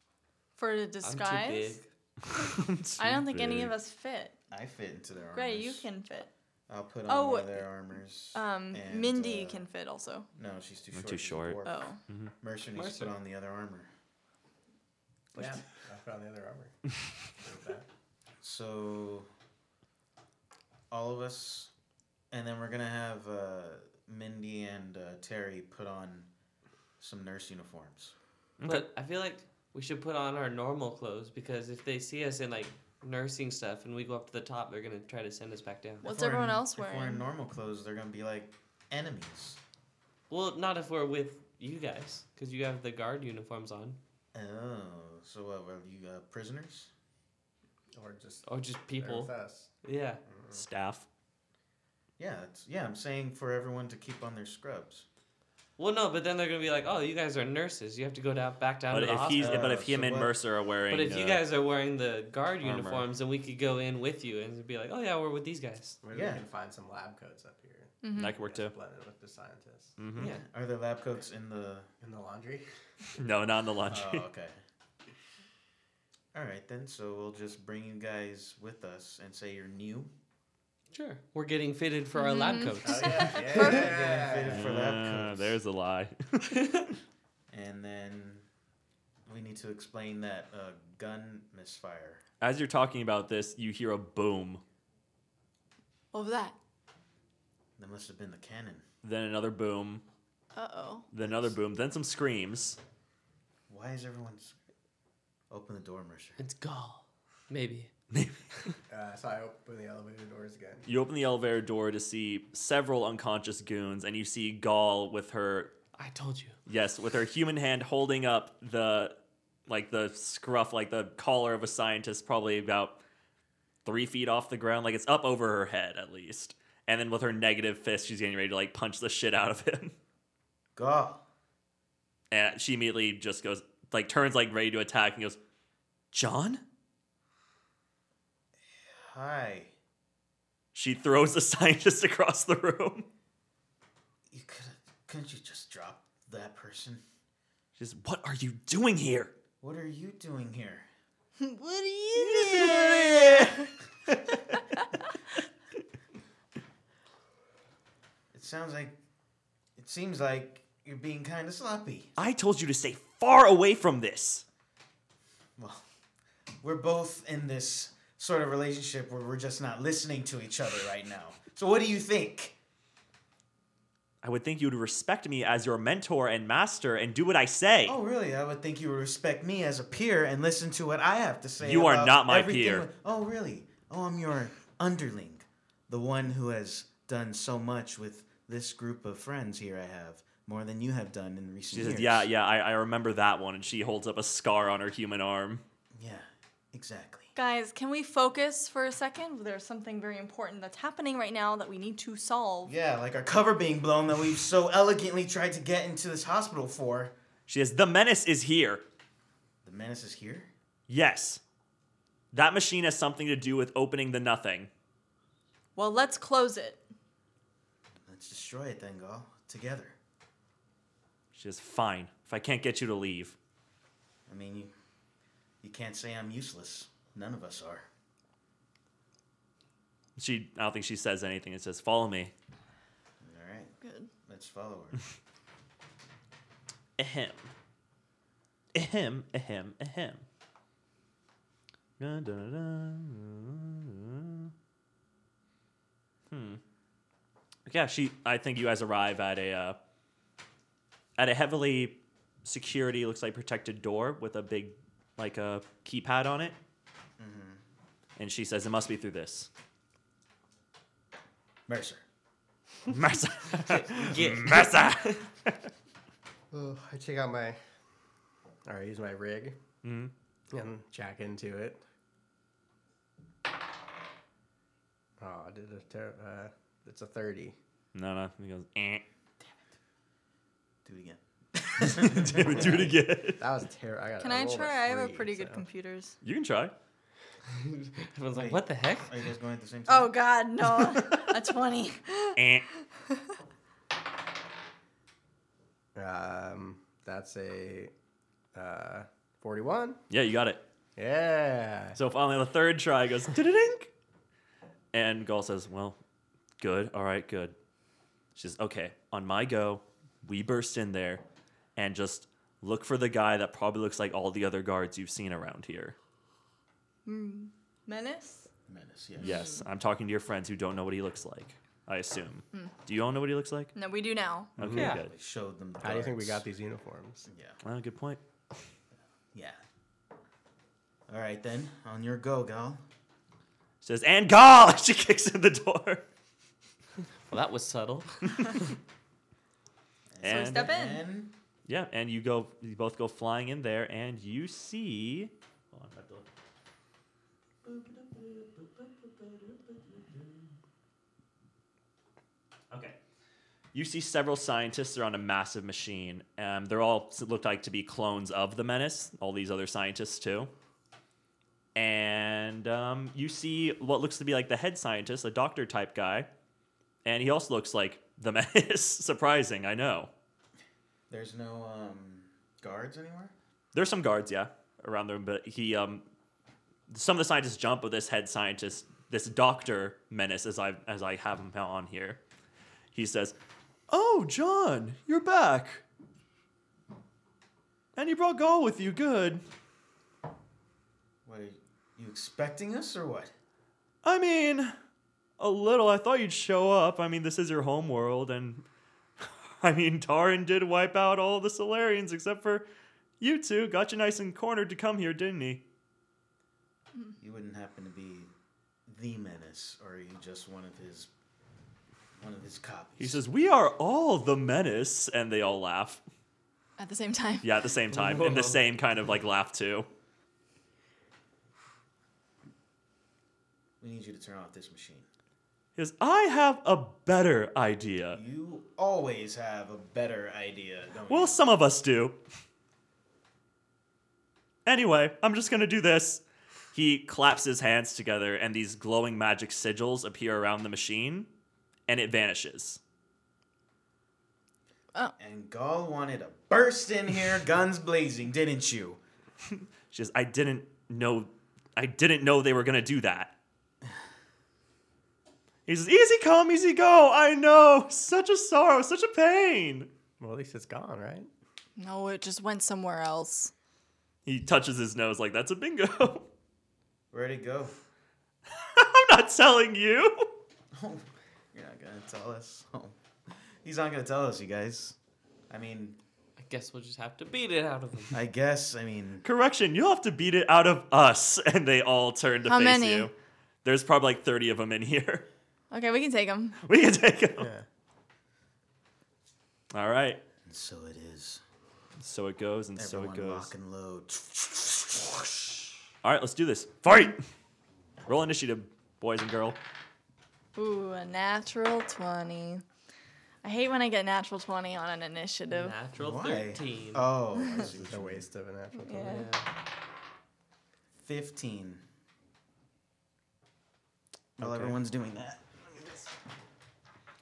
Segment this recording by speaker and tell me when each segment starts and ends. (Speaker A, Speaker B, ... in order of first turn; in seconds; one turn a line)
Speaker A: 0.6-1.8
Speaker B: 1.0-1.9
Speaker C: 2.3-3.7
Speaker A: 3.0-4.3
Speaker D: 4.5-5.8
Speaker A: 5.3-6.3
Speaker D: 6.7-9.7
Speaker A: 7.1-7.7
Speaker A: 8.3-10.3
Speaker D: 10.3-13.9
Speaker C: 10.9-12.3
Speaker A: 11.7-12.0
Speaker B: 12.7-13.1
Speaker E: 15.3-16.8
Speaker E: 17.4-17.9
Speaker D: 18.4-19.3
Speaker D: 20.9-21.7
Speaker D: 22.3-26.3
Speaker D: 27.0-28.1
Speaker C: 28.6-28.9
Speaker B: 28.6-36.0
Speaker A: 36.0-37.2
Speaker D: 36.0-39.6
Speaker B: 40.3-44.0
Speaker D: 44.3-46.9
Speaker E: 47.9-49.7
Speaker B: 48.4-49.3
Speaker B: 49.8-50.2
Speaker E: 50.3-50.6
Speaker C: 50.5-51.0
Speaker D: 52.2-55.0
Speaker B: 55.8-59.8
Speaker C: 58.9-61.4
Speaker D: 59.3-60.3
Speaker B: 60.9-66.0
Speaker C: 62.6-63.1
Speaker E: 66.0-70.0
Speaker D: 66.1-66.4
Speaker A: 68.0-68.3
Speaker C: 68.1-68.7
Speaker C: 70.0-70.3
Speaker B: 70.2-70.4
Speaker D: 70.2-71.9
Speaker E: 72.0-72.7
Speaker C: 73.2-74.2
Speaker D: 73.9-74.6
Speaker D: 76.3-80.1
Speaker B: 80.9-84.3
Speaker A: 82.1-83.8
Speaker E: 82.8-84.7
Speaker D: 83.5-85.6
Speaker C: 84.5-86.8
Speaker D: 87.5-88.5
Speaker D: 89.2-92.2
Speaker C: 92.4-94.6
Speaker A: 96.1-96.5
Speaker D: 97.8-98.8
Speaker C: 99.0-100.0
Speaker A: 100.5-101.1
Speaker C: 101.1-102.8
Speaker D: 103.7-104.5
Speaker D: 105.5-106.4
Speaker B: 106.4-107.9
Speaker C: 108.1-108.5
Speaker E: 108.9-110.8
Speaker C: 110.8-115.8
Speaker B: 115.9-116.5
Speaker C: 116.7-123.0
Speaker C: 123.8-129.9
Speaker D: 130.7-131.2
Speaker C: 132.3-135.4
Speaker C: 136.1-136.6
Speaker D: 138.9-139.7
Speaker C: 140.7-143.1
Speaker D: 144.3-147.0
Speaker C: 147.8-149.3
Speaker D: 149.6-150.9
Speaker A: 151.4-153.7
Speaker C: 152.2-154.3
Speaker D: 158.3-158.9
Speaker D: 159.8-162.1
Speaker C: 162.2-164.4
Speaker D: 165.6-165.8
Speaker D: 166.6-172.5
Speaker C: 174.2-178.0
Speaker D: 177.8-192.3
Speaker C: 181.6-182.9
Speaker C: 191.7-195.6
Speaker D: 195.9-197.3
Speaker A: 197.3-202.7
Speaker D: 202.6-207.1
Speaker C: 207.5-208.8
Speaker D: 209.6-210.5
Speaker C: 210.9-211.4
Speaker C: 212.3-214.7
Speaker A: 215.7-216.8
Speaker D: 218.1-219.9
Speaker C: 221.3-223.3
Speaker D: 224.3-224.7
Speaker D: 225.6-227.8
Speaker C: 230.2-232.3
Speaker D: 233.2-233.7
Speaker A: 233.8-234.1
Speaker D: 234.2-235.0
Speaker C: 237.0-237.5
Speaker C: 238.7-240.2
Speaker C: 242.0-244.5
Speaker C: 246.3-246.6
Speaker C: 247.7-249.8
Speaker C: 251.2-256.6
Speaker D: 257.2-257.6
Speaker C: 258.2-259.5
Speaker D: 261.7-262.0
Speaker C: 262.9-265.7
Speaker B: 263.6-265.2
Speaker E: 266.5-267.6
Speaker E: 268.6-269.6
Speaker C: 269.8-270.1
Speaker E: 270.5-271.8
Speaker E: 275.2-277.6
Speaker C: 277.9-279.0
Speaker D: 280.8-282.9
Speaker C: 281.8-283.4
Speaker E: 282.4-282.9
Speaker E: 283.4-285.6
Speaker A: 284.2-286.2
Speaker C: 286.2-286.7
Speaker B: 287.5-289.1
Speaker D: 288.3-290.2
Speaker A: 289.9-293.2
Speaker C: 290.7-291.4
Speaker C: 292.4-292.6
Speaker E: 295.9-297.9
Speaker E: 298.5-300.0
Speaker C: 300.1-300.6
Speaker E: 300.9-302.0
Speaker C: 301.9-303.9
Speaker C: 304.9-306.0
Speaker C: 306.6-307.6
Speaker C: 308.3-311.2
Speaker C: 311.8-315.9
Speaker A: 317.1-318.5
Speaker D: 318.7-319.5
Speaker C: 319.2-323.7
Speaker A: 319.2-319.6
Speaker A: 323.7-324.6
Speaker C: 324.6-325.1
Speaker E: 324.6-324.9
Speaker B: 324.7-325.0
Speaker D: 324.8-326.4
Speaker E: 325.8-327.2
Speaker D: 327.3-327.6
Speaker C: 327.6-328.2
Speaker D: 329.3-329.6
Speaker D: 331.1-332.8
Speaker C: 333.8-336.1
Speaker B: 337.3-338.6
Speaker D: 340.1-341.3
Speaker C: 340.2-340.7
Speaker A: 340.2-341.0
Speaker C: 341.6-346.3
Speaker C: 347.6-350.5
Speaker C: 352.7-353.0
Speaker C: 353.7-360.5
Speaker C: 361.7-366.3
Speaker C: 367.0-370.1
Speaker D: 371.1-373.3
Speaker C: 373.7-376.0
Speaker C: 376.9-382.2
Speaker C: 382.9-383.4
Speaker C: 383.9-385.8
Speaker C: 387.9-389.4
Speaker D: 391.2-393.3
Speaker C: 394.0-394.7
Speaker C: 395.4-398.6
Speaker C: 399.2-402.7
Speaker C: 403.2-405.6
Speaker D: 407.2-408.3
Speaker D: 408.9-411.1
Speaker D: 412.2-413.2
Speaker C: 413.0-416.0
Speaker A: 416.8-417.5
Speaker C: 417.4-419.9
Speaker B: 417.9-418.6
Speaker D: 423.8-425.1
Speaker C: 425.8-428.2
Speaker D: 428.1-431.4
Speaker C: 431.1-432.2
Speaker C: 434.6-441.3
Speaker C: 441.9-442.8
Speaker D: 445.2-449.0
Speaker C: 449.5-453.4
Speaker C: 455.6-459.9
Speaker E: 460.2-461.3
Speaker A: 461.8-463.5
Speaker C: 464.2-466.3
Speaker D: 467.1-467.8
Speaker C: 468.5-470.3
Speaker D: 470.7-472.9
Speaker D: 473.6-474.9
Speaker D: 475.5-476.0
Speaker B: 476.4-478.2
Speaker D: 478.1-479.2
Speaker C: 479.2-485.3
Speaker A: 482.5-483.1
Speaker A: 485.7-486.6
Speaker C: 486.6-487.5
Speaker E: 487.4-487.6
Speaker C: 489.7-490.2
Speaker D: 490.4-491.4
Speaker C: 492.0-493.5
Speaker D: 492.8-495.6
Speaker C: 496.0-497.3
Speaker C: 498.1-499.6
Speaker A: 500.5-502.6
Speaker A: 503.4-505.8
Speaker B: 505.5-507.1
Speaker D: 505.9-508.3
Speaker E: 507.6-509.3
Speaker A: 508.8-509.3
Speaker B: 509.0-509.5
Speaker D: 511.0-511.8
Speaker D: 514.4-516.0
Speaker C: 514.4-514.7